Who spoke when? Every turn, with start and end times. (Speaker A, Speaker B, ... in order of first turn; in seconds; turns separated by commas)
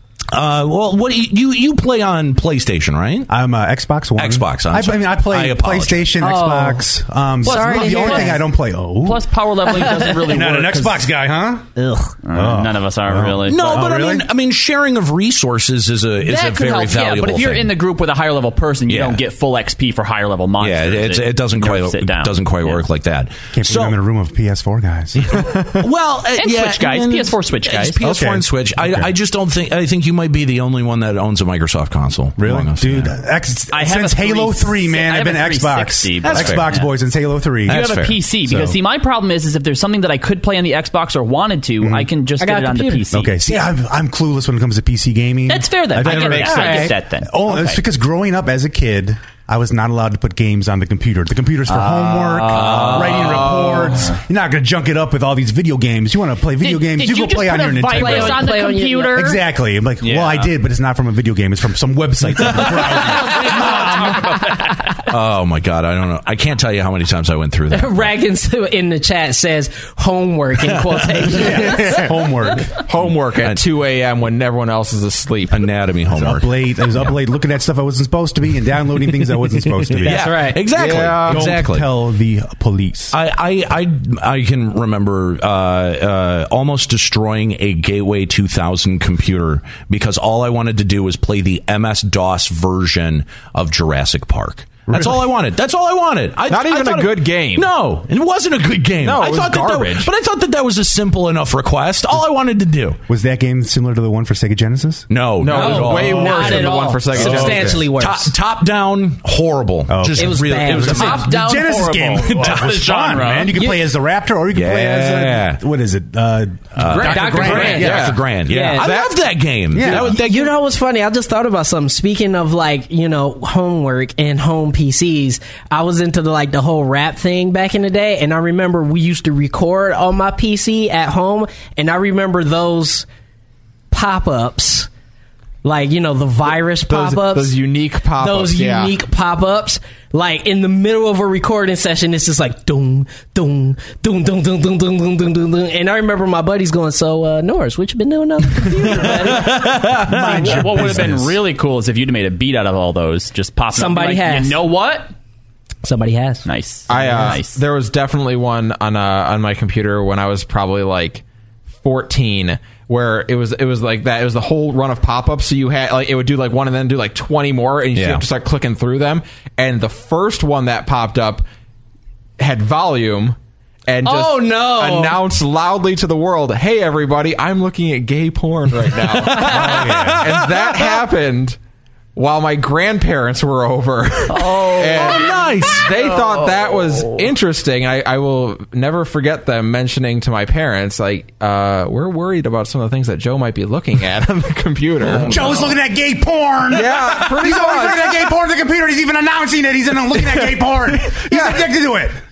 Speaker A: 0.3-3.3, Speaker B: 3.3-9.3, Speaker A: 4.2-6.1, Speaker C: 6.2-6.8, Speaker C: 7.4-8.4, Speaker D: 7.4-8.4, Speaker D: 9.0-11.0, Speaker C: 9.7-10.1, Speaker B: 10.0-11.7, Speaker C: 11.8-12.1, Speaker D: 12.2-13.6, Speaker B: 12.3-14.2, Speaker A: 13.4-17.7, Speaker D: 16.2-22.8, Speaker A: 18.9-19.2, Speaker A: 20.6-24.0, Speaker B: 23.5-25.6, Speaker A: 25.2-33.1, Speaker D: 26.4-28.0, Speaker B: 28.0-29.1, Speaker B: 32.4-37.9, Speaker D: 33.7-36.9, Speaker A: 36.2-36.7, Speaker D: 37.6-43.5, Speaker A: 37.7-38.2, Speaker B: 38.4-38.8, Speaker B: 41.8-42.1, Speaker C: 42.4-43.1, Speaker B: 43.1-58.5, Speaker D: 45.5-47.8, Speaker A: 46.0-46.4, Speaker C: 46.3-46.9, Speaker D: 51.7-53.3, Speaker A: 52.5-53.7, Speaker E: 53.3-54.1, Speaker D: 56.6-59.4, Speaker C: 57.9-59.4, Speaker B: 59.1-64.4, Speaker D: 60.0-60.5, Speaker D: 62.8-65.0, Speaker A: 65.1-68.1, Speaker C: 67.7-72.1, Speaker A: 70.6-71.5, Speaker B: 71.2-72.8, Speaker E: 72.7-75.7, Speaker A: 73.4-73.6, Speaker A: 75.5-77.1, Speaker B: 76.1-80.5, Speaker A: 79.9-81.9, Speaker C: 80.0-80.6, Speaker E: 80.7-81.5, Speaker B: 81.2-83.2, Speaker A: 83.1-103.0, Speaker B: 94.9-95.2, Speaker E: 96.5-97.7, Speaker E: 99.0-100.1, Speaker B: 103.1-105.1, Speaker A: 105.1-111.3, Speaker E: 105.4-107.8, Speaker C: 105.5-108.3, Speaker B: 107.2-107.8, Speaker B: 109.9-118.1, Speaker C: 110.2-111.2, Speaker D: 110.8-113.5, Speaker A: 112.4-112.8, Speaker C: 113.5-113.8, Speaker A: 114.5-115.6, Speaker A: 116.7-120.5, Speaker E: 116.8-118.2, Speaker C: 117.0-119.0, Speaker B: 119.7-120.2, Speaker C: 119.8-133.1, Speaker C: 133.9-134.9, Speaker C: 135.6-137.6, Speaker E: 136.9-138.9, Speaker C: 138.2-149.7, Speaker A: 149.0-150.9, Speaker B: 149.9-151.4, Speaker D: 150.1-155.1, Speaker C: 153.7-154.6, Speaker C: 155.8-157.4, Speaker D: 156.4-157.6, Speaker E: 156.9-161.2, Speaker E: 161.8-171.4, Speaker A: 167.9-168.2, Speaker E: 172.4-181.6, Speaker C: 174.0-175.2, Speaker C: 179.3-179.6, Speaker B: 179.4-180.3, Speaker A: 179.8-180.8, Speaker E: 182.2-195.7, Speaker D: 184.3-187.2, Speaker A: 184.9-185.8, Speaker A: 195.1-195.4, Speaker B: 195.1-202.2, Speaker E: 196.7-198.3, Speaker E: 200.2-201.6